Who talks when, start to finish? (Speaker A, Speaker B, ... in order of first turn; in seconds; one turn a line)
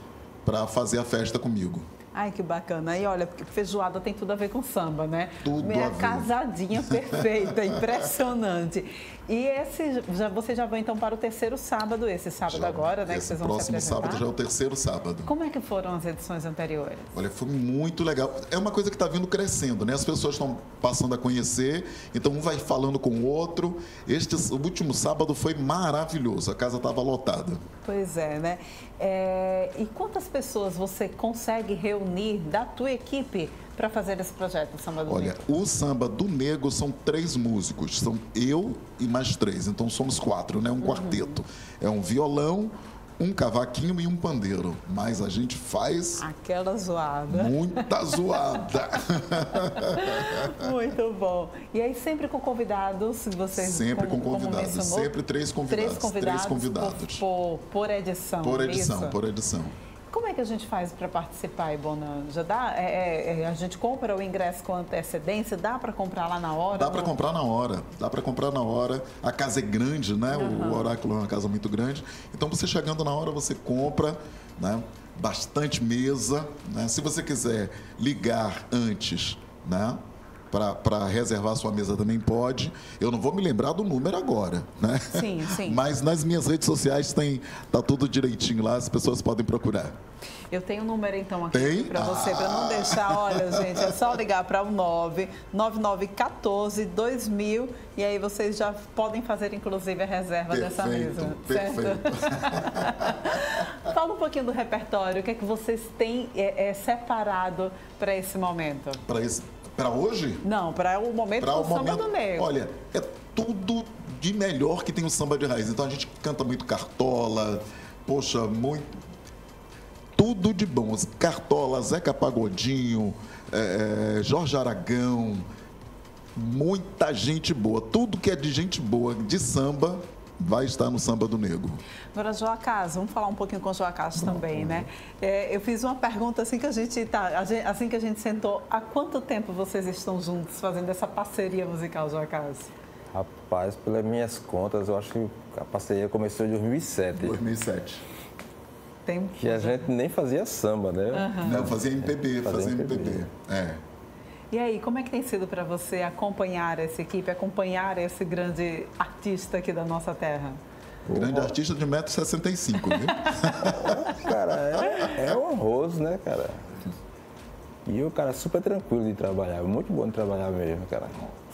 Speaker A: 0.4-1.9
Speaker B: 2.1-14.2
Speaker A: 5.4-6.3
Speaker A: 6.9-7.8
Speaker A: 12.5-15.3
Speaker B: 15.3-17.2
Speaker A: 17.1-27.6
Speaker B: 27.9-35.5
Speaker A: 35.0-46.2
Speaker B: 40.8-41.4
Speaker B: 46.2-48.6
Speaker A: 47.3-50.7
Speaker B: 49.6-55.1
Speaker A: 53.5-57.2
Speaker B: 55.7-59.2
Speaker A: 58.4-59.8
Speaker B: 60.1-67.2
Speaker A: 66.7-90.0
Speaker B: 70.3-71.0
Speaker B: 85.1-85.8
Speaker B: 90.5-109.0
Speaker A: 91.5-93.9
Speaker A: 100.5-103.4
Speaker A: 109.0-110.4
Speaker B: 110.4-112.5
Speaker A: 111.4-118.9
Speaker A: 120.2-125.5
Speaker A: 126.3-131.8
Speaker B: 132.1-142.7
Speaker C: 134.2-134.8
Speaker C: 143.1-147.4
Speaker A: 147.2-148.0
Speaker B: 149.1-149.9
Speaker C: 149.4-153.2
Speaker B: 151.1-151.6
Speaker A: 151.4-153.8
Speaker B: 154.5-160.6
Speaker C: 161.1-161.6
Speaker A: 161.1-164.2
Speaker B: 162.9-163.4
Speaker C: 163.7-166.6
Speaker B: 164.8-165.1
Speaker C: 167.9-171.2